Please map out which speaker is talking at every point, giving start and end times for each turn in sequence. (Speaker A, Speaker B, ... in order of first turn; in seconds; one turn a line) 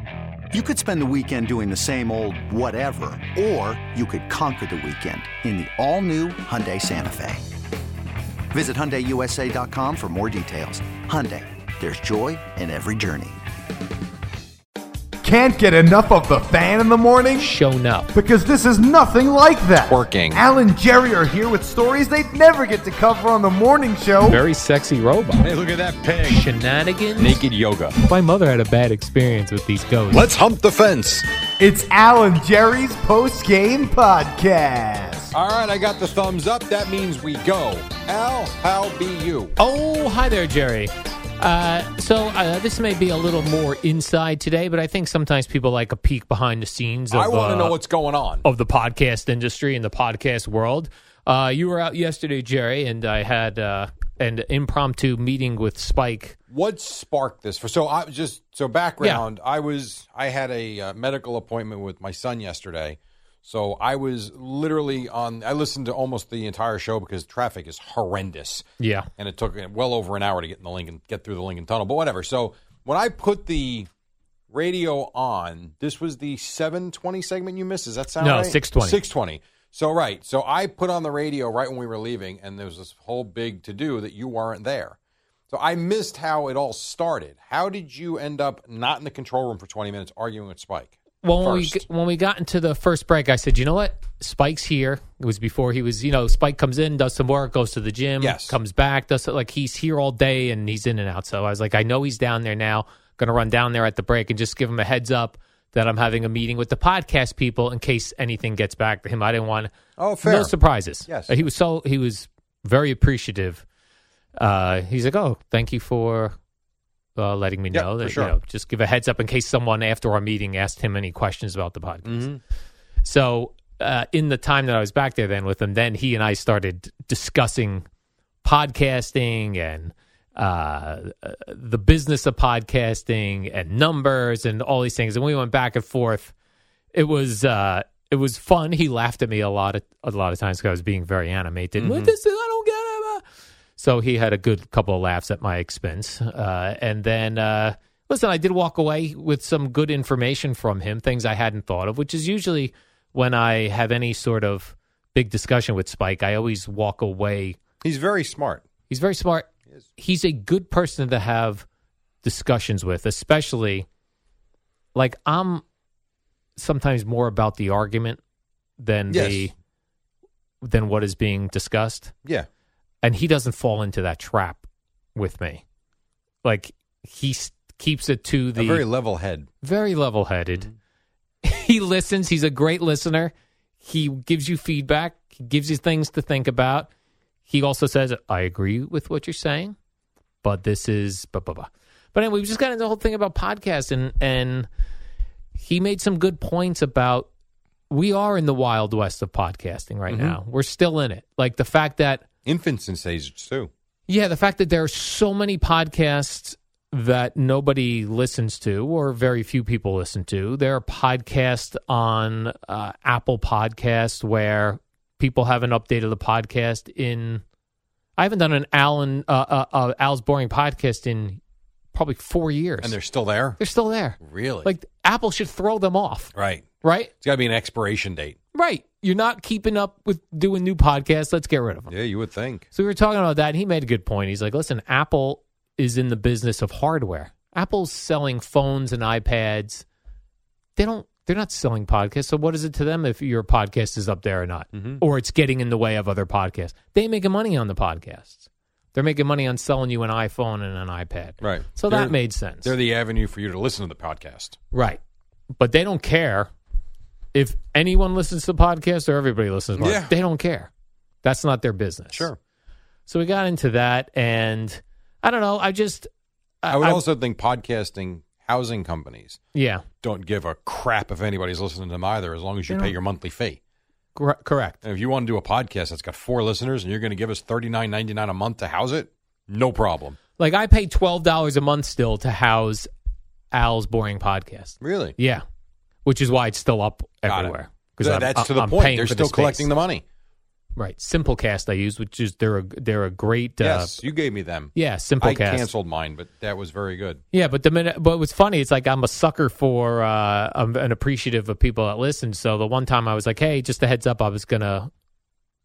Speaker A: 0.5-7.5
Speaker A: 8.5-13.4
Speaker B: 15.2-17.5
Speaker C: 17.4-18.1
Speaker B: 18.1-24.4
Speaker D: 19.8-20.4
Speaker C: 24.2-25.5
Speaker D: 25.4-26.4
Speaker C: 26.2-27.4
Speaker D: 27.2-27.9
Speaker C: 28.0-30.3
Speaker D: 30.1-31.2
Speaker B: 31.6-35.3
Speaker D: 35.3-39.5
Speaker C: 39.6-47.8
Speaker D: 47.1-48.4
Speaker C: 48.4-56.4
Speaker D: 56.5-68.6
Speaker C: 68.8-69.1
Speaker D: 69.2-73.9
Speaker D: 74.5-85.0
Speaker C: 78.2-79.0
Speaker D: 85.5-91.8
Speaker C: 91.2-109.7
Speaker D: 98.2-98.6
Speaker D: 110.0-110.5
Speaker C: 110.2-113.6
Speaker D: 111.1-111.4
Speaker C: 114.4-116.3
Speaker C: 117.2-122.3
Speaker D: 117.7-118.3
Speaker D: 122.1-122.4
Speaker C: 123.0-127.8
Speaker C: 128.4-136.3
Speaker C: 136.9-143.2
Speaker D: 141.8-142.1
Speaker C: 143.8-157.6
Speaker D: 157.8-158.7
Speaker C: 158.9-161.7
Speaker C: 162.2-163.9
Speaker C: 164.9-165.6
Speaker C: 166.6-168.2
Speaker C: 168.8-169.5
Speaker D: 169.1-169.5
Speaker C: 170.6-172.1
Speaker C: 173.0-174.6
Speaker C: 175.2-175.6
Speaker C: 176.4-178.8
Speaker D: 178.6-179.5
Speaker C: 179.6-180.7
Speaker C: 181.4-186.9
Speaker C: 187.5-189.8
Speaker C: 190.4-194.7
Speaker C: 195.6-197.3
Speaker C: 197.9-202.2
Speaker D: 200.1-200.4
Speaker D: 202.5-203.7
Speaker C: 204.1-217.4
Speaker C: 218.2-221.4
Speaker C: 221.9-223.0
Speaker D: 222.8-223.6
Speaker C: 223.6-227.1
Speaker D: 224.2-224.7
Speaker D: 226.3-226.7
Speaker D: 227.2-228.4
Speaker C: 228.5-231.9
Speaker D: 231.9-232.7
Speaker C: 232.7-239.8
Speaker C: 240.8-252.7
Speaker D: 244.7-245.0
Speaker D: 251.4-254.6
Speaker C: 254.7-255.0
Speaker C: 255.6-256.5
Speaker C: 257.3-260.7
Speaker D: 259.8-260.1
Speaker C: 261.2-262.3
Speaker D: 262.1-262.4
Speaker C: 263.1-266.1
Speaker C: 266.6-267.0
Speaker D: 266.7-269.4
Speaker C: 269.5-269.8
Speaker D: 270.0-273.6
Speaker C: 272.7-272.9
Speaker C: 274.1-274.8
Speaker D: 274.8-280.2
Speaker C: 280.4-282.9
Speaker C: 283.5-285.4
Speaker D: 284.8-285.1
Speaker C: 286.0-289.7
Speaker D: 287.3-290.0
Speaker C: 290.8-294.0
Speaker D: 293.6-297.2
Speaker C: 294.8-295.7
Speaker C: 297.3-304.9